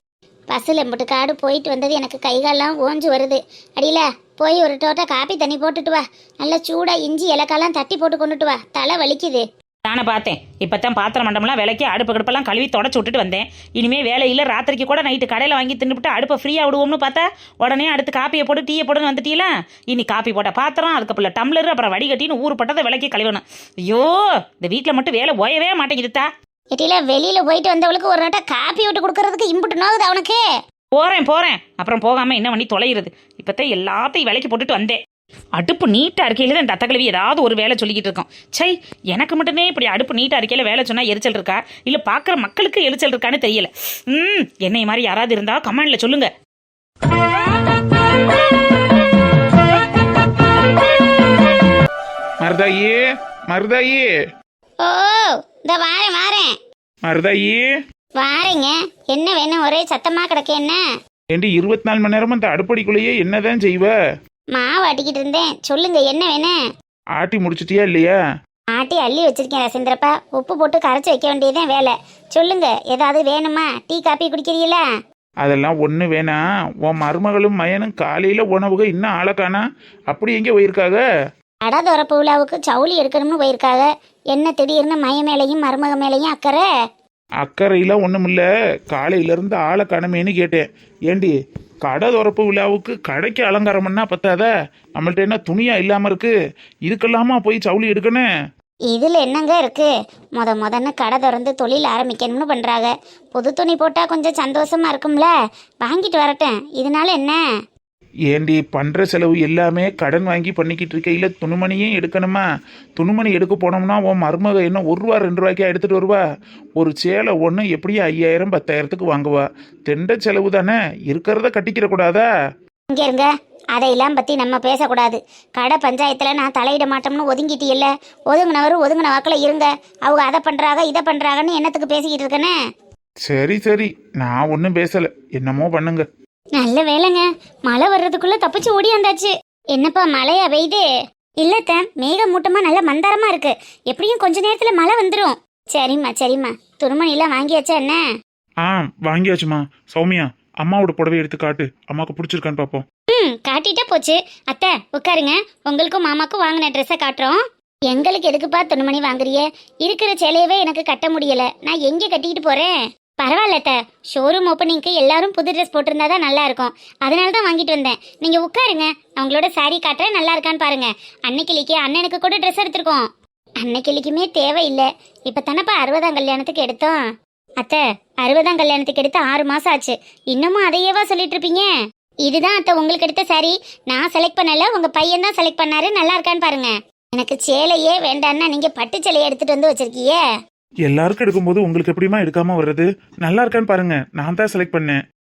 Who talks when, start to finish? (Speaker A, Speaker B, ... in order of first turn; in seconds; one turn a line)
Speaker A: 0.5-9.4
Speaker B: 9.9-26.3
Speaker A: 26.7-30.4
Speaker B: 30.9-35.0
Speaker B: 35.6-46.3
Speaker C: 52.4-54.1
Speaker A: 54.8-56.5
Speaker C: 57.1-57.7
Speaker A: 58.2-60.8
Speaker C: 61.3-63.9
Speaker A: 64.5-66.5
Speaker C: 67.2-68.1
Speaker A: 68.8-74.8
Speaker C: 75.4-81.0
Speaker A: 81.6-86.7
Speaker C: 87.4-91.3
Speaker C: 91.8-96.3
Speaker C: 96.9-98.2
Speaker A: 98.9-105.3
Speaker A: 105.8-107.4
Speaker C: 108.3-112.4
Speaker C: 113.0-116.2
Speaker C: 116.8-122.2
Speaker A: 122.9-132.5
Speaker C: 133.2-136.1
Speaker A: 136.6-140.8
Speaker A: 141.4-148.0
Speaker C: 148.6-152.8
Speaker A: 153.1-173.1
Speaker A: 173.6-177.0
Speaker A: 177.6-181.7
Speaker A: 182.2-190.2
Speaker C: 190.9-195.0